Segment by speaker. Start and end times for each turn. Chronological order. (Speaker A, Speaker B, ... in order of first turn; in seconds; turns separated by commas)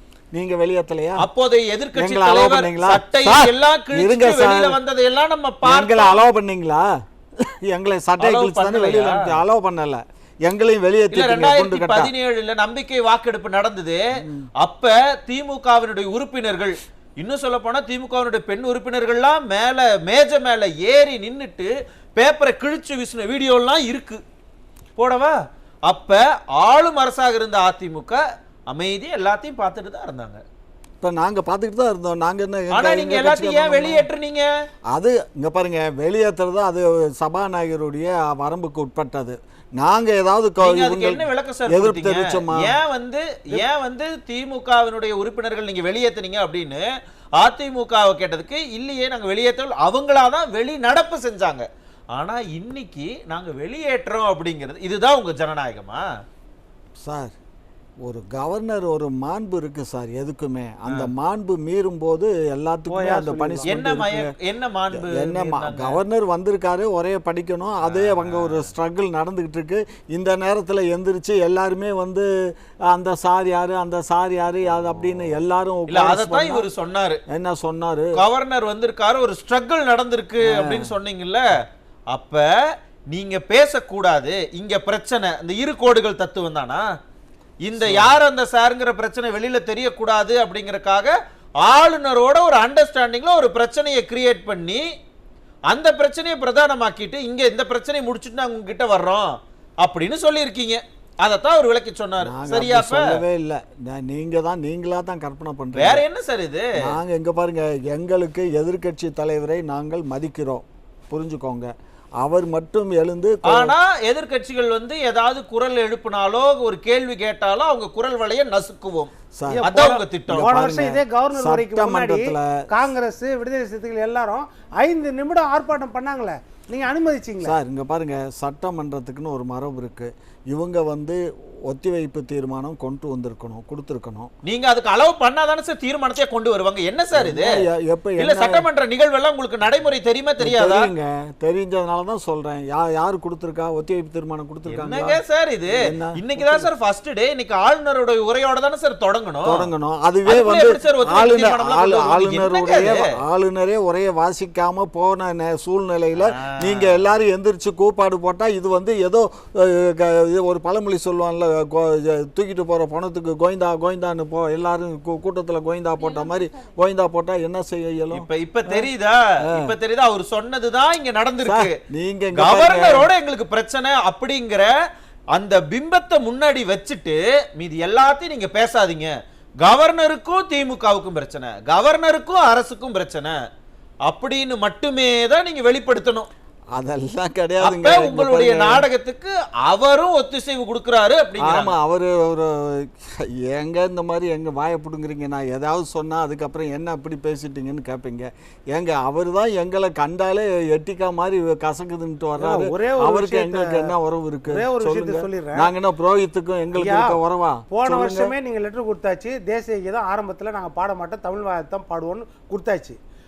Speaker A: 0.3-1.2, Speaker B: 1.2-6.2, Speaker A: 1.9-4.8, Speaker A: 5.6-6.9, Speaker A: 7.4-12.1, Speaker B: 8.2-9.4, Speaker B: 11.1-14.0, Speaker A: 14.2-14.5, Speaker B: 14.6-24.2, Speaker B: 24.9-30.4, Speaker A: 31.0-34.1, Speaker B: 32.7-34.5, Speaker A: 34.9-42.8, Speaker B: 40.6-46.8, Speaker B: 47.4-56.0, Speaker A: 57.0-57.3, Speaker A: 58.0-64.3, Speaker C: 62.9-63.7, Speaker B: 63.6-66.0, Speaker A: 64.9-72.3, Speaker B: 67.8-68.7, Speaker A: 72.9-76.7, Speaker B: 74.7-75.3, Speaker B: 75.9-77.2, Speaker A: 77.3-78.2, Speaker B: 78.1-81.4, Speaker A: 80.4-80.9, Speaker B: 82.1-82.5, Speaker B: 83.1-86.8, Speaker B: 87.6-94.8, Speaker A: 87.8-88.1, Speaker B: 95.7-103.2, Speaker A: 102.2-106.0, Speaker B: 105.7-106.7, Speaker A: 106.8-113.7, Speaker B: 113.5-120.5, Speaker A: 119.4-122.5, Speaker C: 119.5-127.5, Speaker A: 127.4-134.3, Speaker B: 134.4-137.6, Speaker A: 137.1-138.7, Speaker B: 138.2-140.9, Speaker A: 140.4-145.2, Speaker B: 144.6-149.7, Speaker A: 145.7-146.7, Speaker A: 149.4-168.9, Speaker B: 150.2-153.1, Speaker B: 156.2-157.1, Speaker B: 168.1-171.8, Speaker A: 169.4-169.7, Speaker A: 171.4-173.1, Speaker B: 172.3-174.7, Speaker B: 175.3-183.4, Speaker B: 184.1-186.3, Speaker A: 186.7-188.8, Speaker B: 187.6-191.7, Speaker A: 191.4-208.3, Speaker C: 202.4-203.9, Speaker C: 204.5-205.7, Speaker C: 206.7-207.2, Speaker C: 207.7-213.0